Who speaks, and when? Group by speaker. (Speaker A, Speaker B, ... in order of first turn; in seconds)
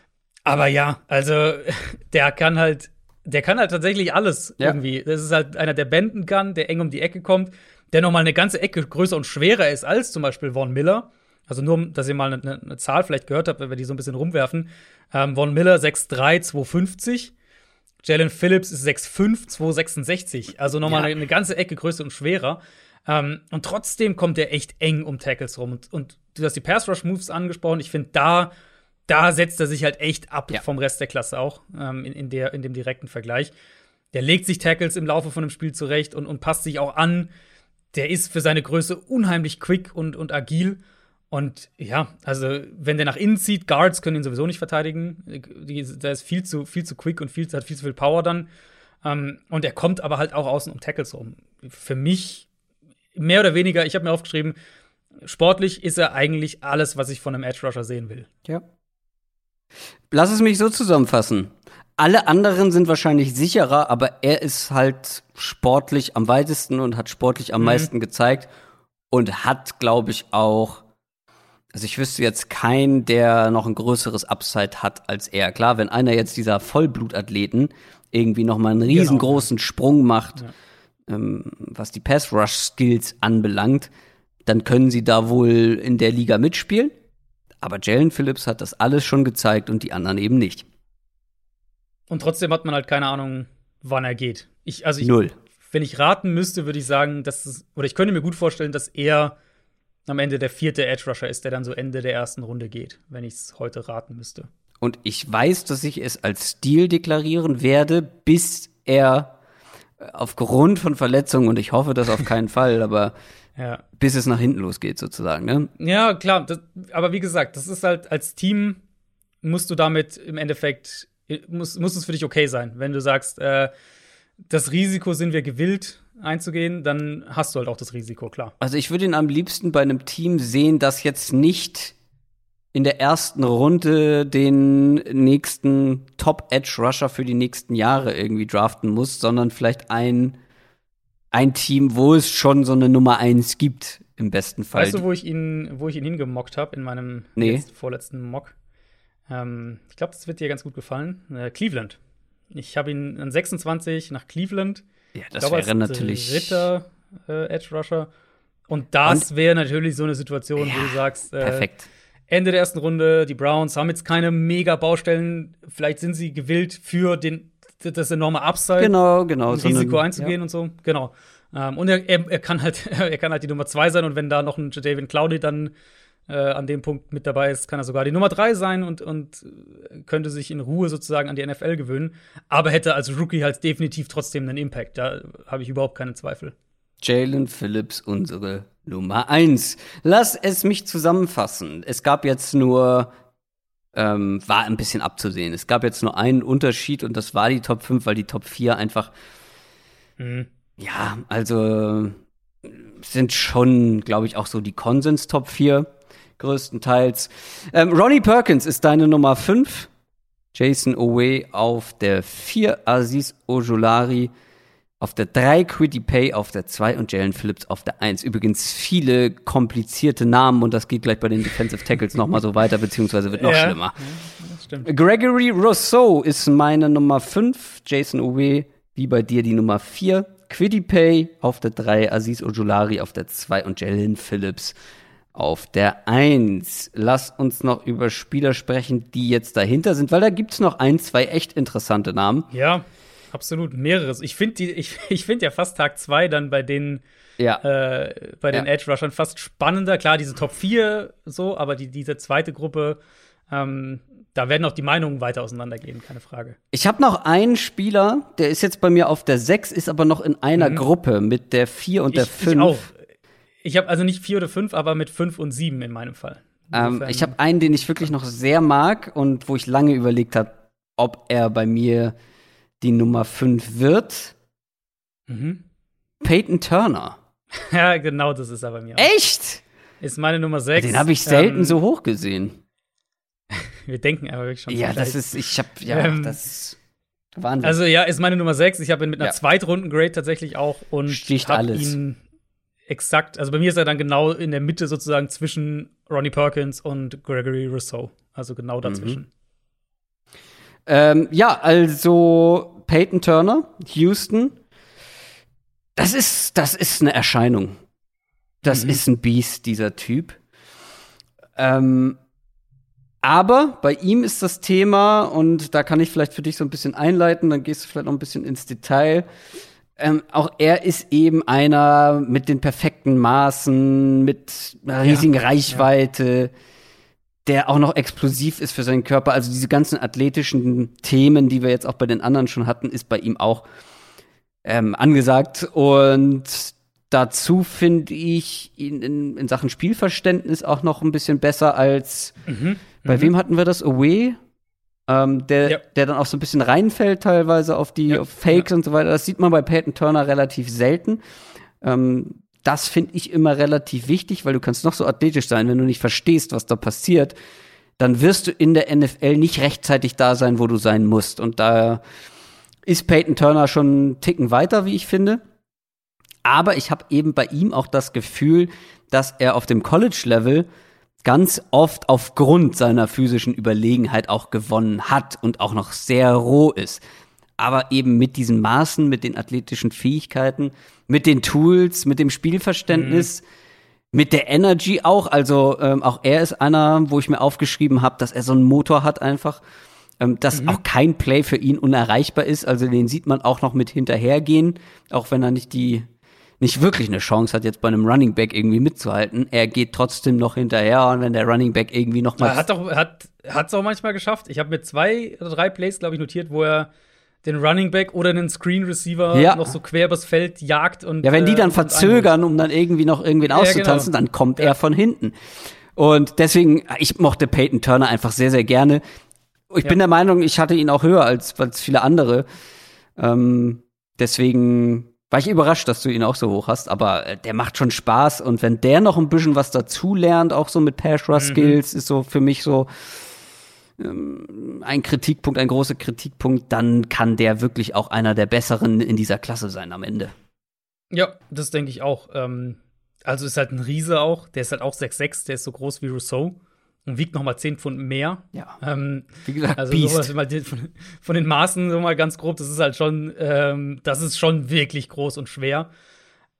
Speaker A: 0.4-17.3, 18.0-28.5, 29.1-33.5, 34.1-37.3, 37.9-40.8, 41.3-48.5, 49.0-52.5, 53.1-54.5, 55.2-58.3, 67.6-67.9, 78.9-79.5, 92.1-95.1, 95.7-99.3, 100.1-104.5, 113.6-113.8, 115.8-118.8, 119.4-123.7, 124.5-128.5, 144.7-148.5, 149.3-152.0, 152.5-154.8, 155.4-158.1, 158.7-161.7, 162.3-168.9, 169.5-175.7, 176.3-186.5, 200.2-200.5, 223.3-224.9, 242.5-247.0, 247.6-253.0, 253.5-256.6, 260.6-260.8, 262.1-263.0, 263.6-267.3, 275.3-275.6, 277.5-279.1, 280.0-281.8, 283.5-285.2, 285.9-286.4, 287.6-292.2, 292.9-299.3, 308.7-309.0, 325.1-325.9, 342.5-343.3, 348.1-348.6, 382.9-383.3, 390.5-390.8, 402.4-406.9, 407.4-412.3, 413.5-414.7, 431.3-431.8, 441.1-455.9
Speaker B: 20.9-21.1, 60.1-68.5, 69.1-70.8, 71.7-80.4, 81.1-83.9, 84.5-86.9, 87.6-90.7, 95.0-95.3, 104.8-109.3, 110.0-113.1, 114.0-115.7, 128.6-131.9, 132.7-140.3, 141.3-145.0, 147.4-147.6, 155.1-156.7, 160.6-161.9, 168.8-170.3, 187.0-193.1, 193.9-199.1, 200.8-205.9, 206.4-209.9, 210.5-214.3, 215.0-224.1, 224.8-234.7, 235.3-242.5, 256.7-262.8, 266.7-272.1, 272.8-274.3, 276.2-277.2, 279.0-279.6, 280.8-282.6, 284.7-286.8, 287.3-287.8, 291.1-291.9, 298.8-299.2, 300.9-304.6, 305.9-307.8, 308.6-310.4, 311.6-312.2, 313.2-319.2, 320.0-326.5, 327.4-333.6, 334.6-342.4, 343.0-344.4, 345.1-351.2, 351.8-357.3, 358.0-362.0, 362.9-365.4, 366.4-370.6, 371.2-377.0, 377.6-383.4, 384.1-389.6, 390.2-396.1, 396.6-402.6, 409.3-409.7, 411.2-415.3, 415.9-419.0, 419.7-422.4, 423.2-432.9, 434.0-440.3, 449.4-450.3